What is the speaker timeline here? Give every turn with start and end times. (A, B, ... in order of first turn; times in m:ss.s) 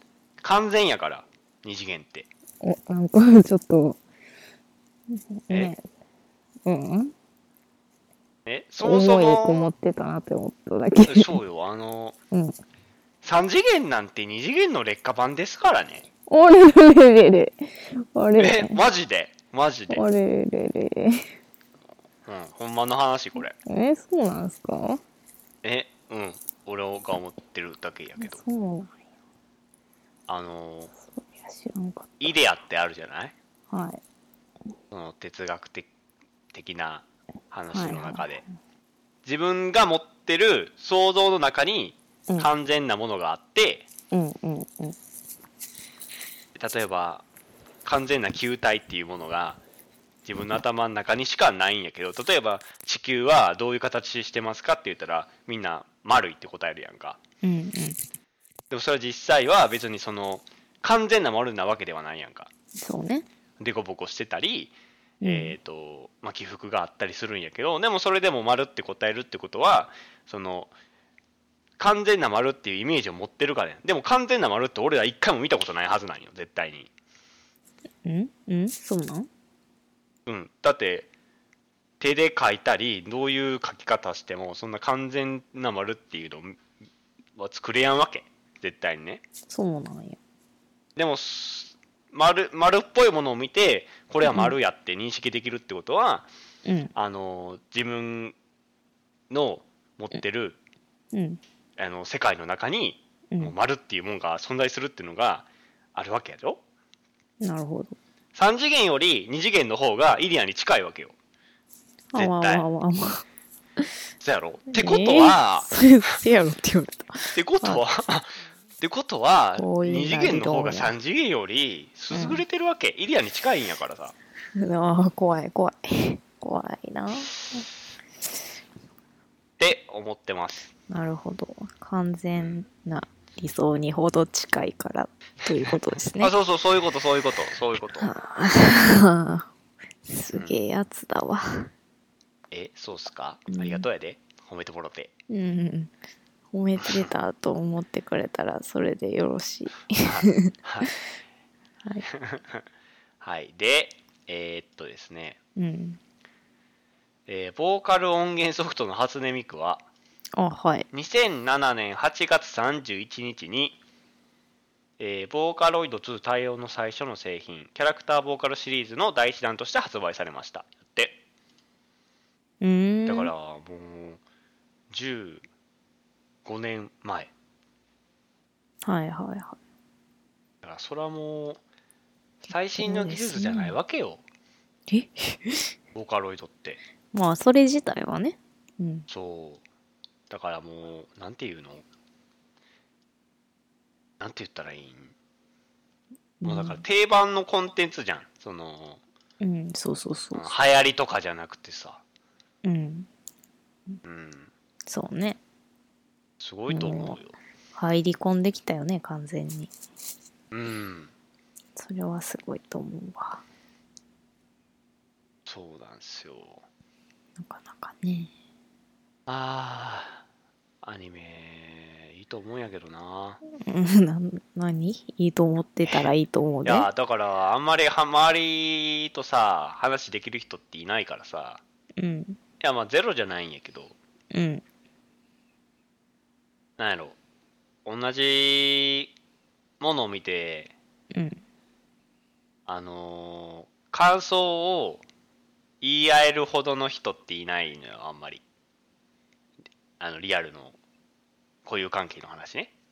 0:00.4-0:02.3 A
0:02.6-0:04.0 B
0:05.1-0:05.8 B
0:06.7-0:07.1 B
0:08.5-0:09.7 A
0:08.8-0:11.4 B
0:11.0-0:12.2 A
0:12.3-0:12.6 B
0:13.2-0:16.0 A
0:16.3-0:18.8 B
0:18.4-0:20.0 A
0:19.9-0:21.3 B
0:22.3-0:23.6 A
0:23.6-0:25.0 B
0:25.6-0:28.4 A
0:28.2-0:28.9 B
0:30.3-0:30.9 A
0:31.1-0:32.3 B
0:32.2-0:33.3 A
0:33.7-0:34.0 B
0:34.9-0:35.9 A
0:36.5-0:38.4 A
0:37.7-0:38.4 B
0:39.2-0:43.9 A
0:44.1-0:45.0 B
0:46.6-0:47.2 A
0:47.8-0:49.6 A
0:50.2-0:57.2 A
0:57.4-0:58.0 B
0:58.7-1:02.5 A
1:02.8-1:03.3 B
1:03.6-1:10.7 A
1:05.2-1:05.6 B
1:11.8-1:16.9 A
1:18.0-1:19.3 B
1:20.3-1:21.1 A
1:22.0-1:26.6 A
1:27.4-1:29.2 A
1:29.5-1:30.2 B
1:31.0-1:36.3 A
1:34.2-1:34.6 B
1:36.7-1:36.9 B
1:37.0-1:38.4 A
1:39.3-1:40.6 A
1:41.1-1:41.4 B
1:41.8-1:46.6 A
1:47.4-1:48.0 B
1:48.4-1:51.2 A
1:52.1-1:53.2 B
1:52.2-1:52.7 A
1:54.2-1:55.7 A
1:54.7-1:57.8 B
1:57.3-2:04.2 A
1:59.6-2:00.9 B
2:02.1-2:02.4 B
2:04.6-2:07.6 B
2:09.6-2:10.7 A
2:10.9-2:16.3 B
2:16.2-2:18.1 A
2:18.0-2:19.5 B
2:20.1-2:21.7 B
2:22.5-2:25.1 A
2:23.5-2:23.9 B
2:25.3-2:25.9 B
2:26.5-2:30.5 B
2:26.8-2:27.1 A
2:30.0-2:30.9 A
2:32.1-2:32.6 A
2:33.2-2:35.4 A
2:35.6-2:36.0 B
2:37.3-2:39.8 A
2:40.4-2:40.9 B
2:40.9-2:43.8 A
2:45.0-2:51.2 A
2:52.6-2:53.3 B
2:53.1-2:54.2 A
2:54.9-2:55.4 A
2:56.4-2:57.3 A
2:58.8-2:59.6 B
3:00.6-3:01.6 A
3:02.5-3:04.2 A
3:02.8-3:03.8 B
3:04.9-3:05.7 B
3:06.0-3:06.8 A
3:07.1-3:09.1 B
3:09.1-3:09.6 A
3:10.3-3:11.8 A
3:14.2-3:15.1 A
3:16.4-3:16.8 B
3:16.4-3:19.0 A
3:19.4-3:20.5 B
3:20.3-3:22.0 A
3:22.6-3:23.1 B
3:24.0-3:24.5 A
3:24.9-3:25.4 B
3:26.4-3:27.4 A
3:26.7-3:27.2 B
3:27.8-3:29.7 B
3:30.5-3:31.1 A
3:31.8-3:33.4 B
3:35.5-3:36.6 A
3:37.4-3:38.3 B
3:39.3-3:40.2 A
3:40.8-3:43.4 A
3:43.6-3:46.9 B
3:45.8-3:46.1 A
3:46.6-3:51.6 A
3:52.0-3:52.4 B
3:52.6-3:54.0 A
3:54.3-3:54.6 B
3:56.8-3:57.2 A
3:57.8-3:59.1 A
3:59.8-4:00.7 A
4:01.1-4:01.4 B
4:02.7-4:05.0 A
4:05.8-4:08.4 A
4:10.0-4:10.8 A
4:11.6-4:12.7 A